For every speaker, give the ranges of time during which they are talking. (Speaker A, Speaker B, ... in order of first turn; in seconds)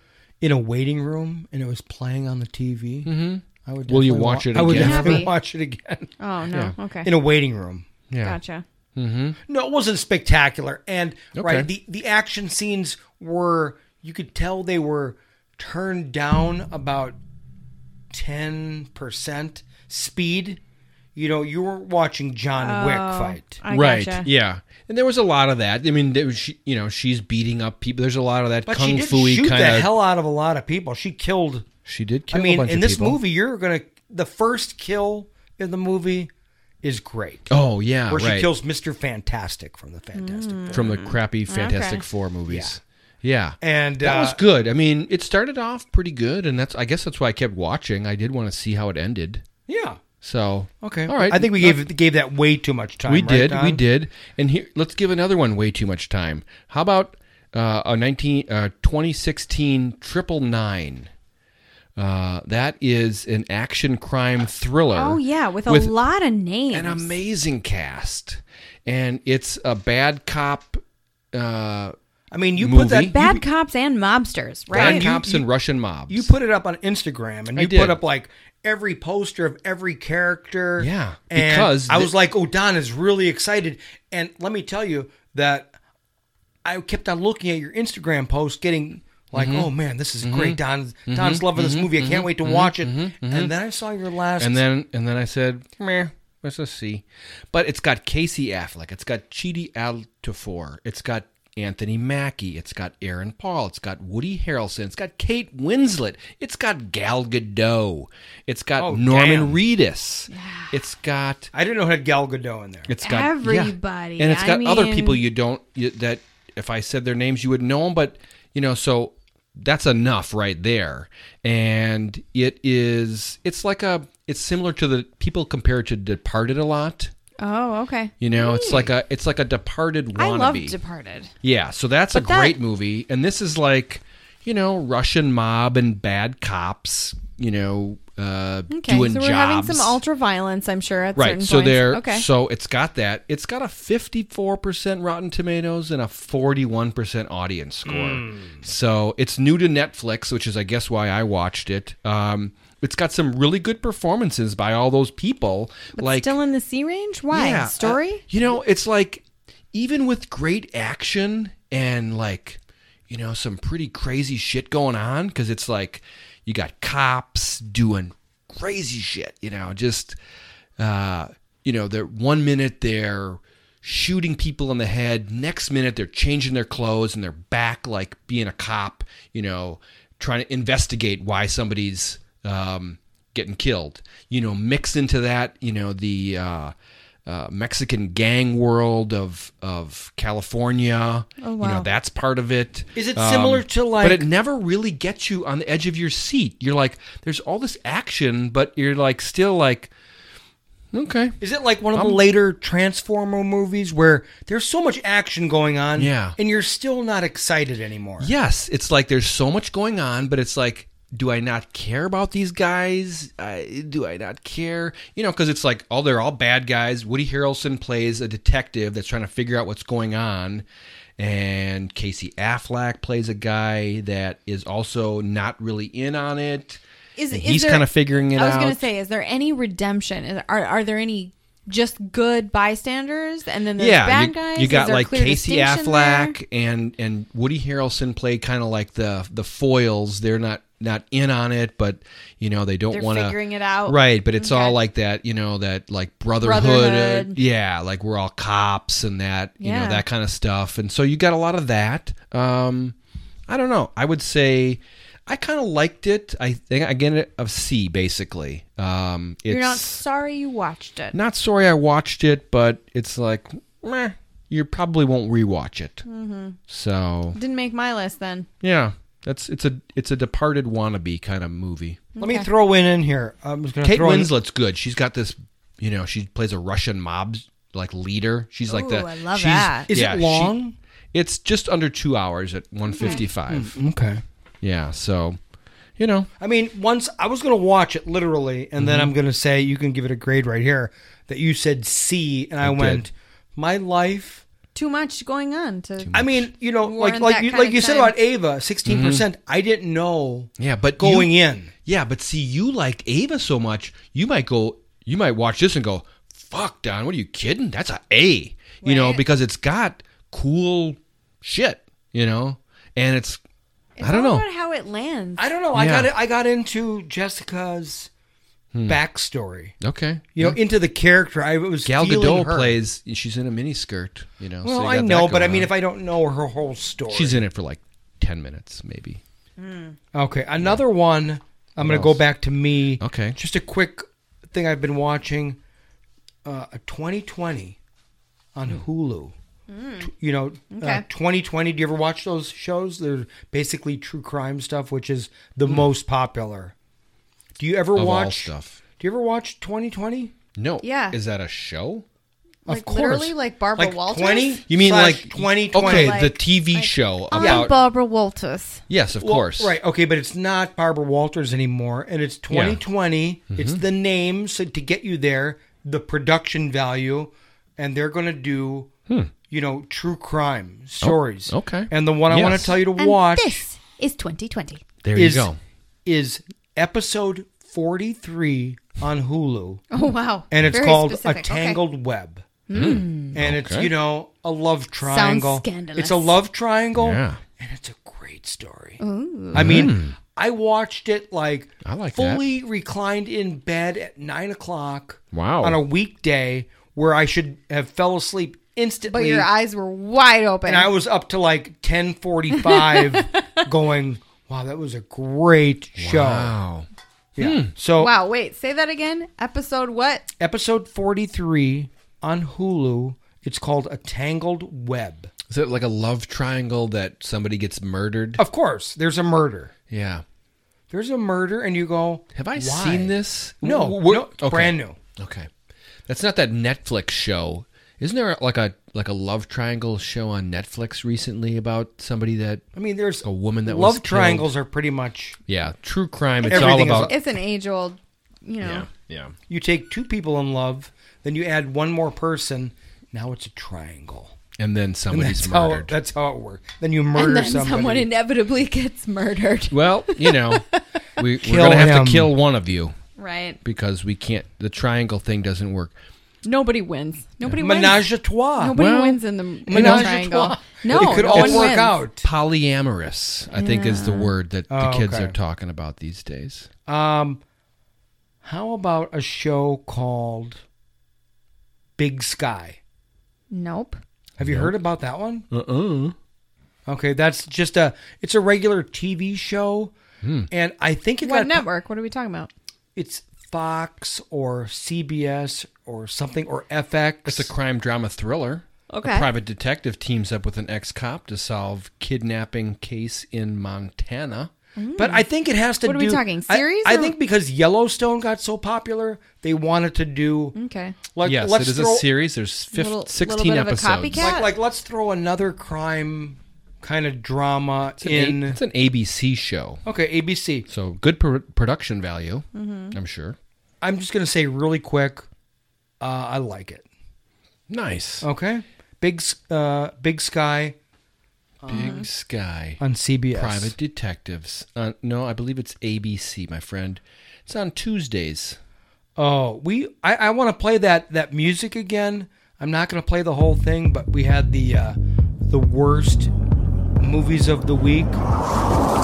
Speaker A: 0.4-3.1, 3.6-6.1, 7.0-7.9, 9.5-17.2, 18.1-20.6, 21.1-23.6, 28.6-31.7, 32.3-36.3, 36.8-37.5, 38.1-40.8, 42.5-42.8, 43.6-44.4, 49.7-50.0, 50.8-53.8, 72.3-73.4, 74.7-75.5, 76.1-85.7, 86.6-94.6, 108.8-109.6, 111.5-112.9, 147.8-148.6, 192.9-194.3, 201.4-208.3, 272.2-274.3, 279.9-280.8, 283.5-284.2, 286.4-294.4, 296.1-301.7, 315.4-318.1, 318.9-319.8, 320.3-322.8, 324.6-327.4, 330.1-335.6, 336.4-337.8, 338.5-339.3, 340.0-346.7, 347.6-350.3, 352.7-356.2, 357.4-357.7, 359.2-368.9, 369.5-373.6, 375.1-375.5, 376.1-379.8, 380.5-382.4, 383.3-389.0, 389.5-399.5, 400.6-406.5, 407.4-408.1, 410.4-415.3, 418.4-419.7, 420.9-425.0, 432.7-435.4, 436.5-437.1, 439.5-444.4, 445.1-448.1, 451.4-452.3, 457.6-458.7, 459.7-462.3, 464.7-465.3, 466.9-467.4, 468.4-470.6, 472.0-472.8, 474.4-475.4, 476.9-479.9, 480.5-481.6, 482.9-487.5, 495.0-500.5, 501.1-502.1, 504.2-508.6, 509.8-510.7, 513.8-515.2, 516.0-516.8, 518.2-520.8, 521.6-522.0, 522.8-523.7, 529.2-536.3, 537.0-538.2
Speaker B: 3.0-5.3, 8.1-8.4, 8.9-9.4, 11.3-11.7, 23.7-29.9, 31.9-33.2, 37.5-38.5, 40.7-49.4, 50.2-51.8, 53.0-61.1, 62.0-65.9, 66.7-70.8, 71.3-71.9, 72.6-73.2, 74.7-76.3, 77.5-78.0, 80.8-82.1, 89.3-93.5, 94.4-111.5, 112.9-127.1, 128.2-130.7, 131.4-140.0, 141.1-156.3, 157.3-170.2, 170.8-186.7, 187.2-199.9, 200.9-201.4, 201.9-202.2, 205.9-206.3, 208.2-220.6, 221.2-228.8, 233.8-252.9, 253.5-260.0, 261.1-266.0, 266.7-267.4, 268.6-272.0, 273.8-280.5, 281.1-283.8, 284.6-285.4, 286.0-286.3, 288.8-289.1, 292.6-293.0, 296.0-296.5, 298.8-299.2, 300.6-301.3, 301.8-313.4, 314.0-314.4, 315.7-316.1, 318.7-319.0, 319.8-320.6, 321.9-325.7, 327.1-329.2, 331.8-332.2, 333.0-333.4, 347.9-348.8, 350.6-352.0, 354.7-357.7, 358.9-359.8, 362.5-362.8, 363.5-363.8, 371.0-372.8, 375.0-375.6, 382.7-383.9, 386.9-387.4, 389.5-390.2, 391.8-392.4, 395.3-395.8, 406.0-407.7, 415.5-418.4, 419.9-420.2, 422.3-425.5, 426.1-432.6, 433.2-434.5, 435.5-437.1, 438.6-439.3, 444.6-445.9, 449.7-452.9, 453.6-455.9, 458.7-459.2, 459.7-460.1, 460.9-466.7, 474.4-474.7, 475.5-476.1, 480.2-480.5, 487.2-494.5, 501.2-504.3, 508.0-509.8, 510.7-513.4, 517.7-518.3, 521.7-522.8, 523.3-528.6
Speaker C: 4.5-5.3, 6.2-7.1, 8.2-8.6, 22.6-24.3, 40.1-42.0, 64.9-67.2, 73.1-75.0, 110.3-110.8, 113.0-115.2, 127.4-128.9, 130.2-131.3, 132.1-132.6, 138.7-142.2, 156.0-158.2, 191.4-191.9, 227.2-236.4, 242.9-244.8, 246.4-247.4, 249.6-250.0, 259.5-261.1, 266.1-266.6, 267.3-268.5, 272.1-272.5, 278.7-279.9, 283.0-283.2, 294.7-296.1, 296.8-298.1, 308.8-309.2, 314.0-315.5, 329.6-329.9, 339.7-340.1, 340.7-341.0, 350.8-351.2, 352.7-354.6, 355.7-358.8, 373.0-374.8, 379.9-381.8, 382.7-383.4, 385.0-386.4, 389.0-389.9, 399.1-400.9, 402.6-403.6, 408.0-410.2, 436.4-438.9, 447.1-450.8, 453.2-453.6, 456.4-458.0, 458.6-462.0, 463.5-464.3, 473.5-474.0, 481.2-482.5, 488.9-489.3, 494.8-495.2, 495.8-497.1, 500.5-500.9, 502.7-504.5, 512.5-512.9, 521.7-522.0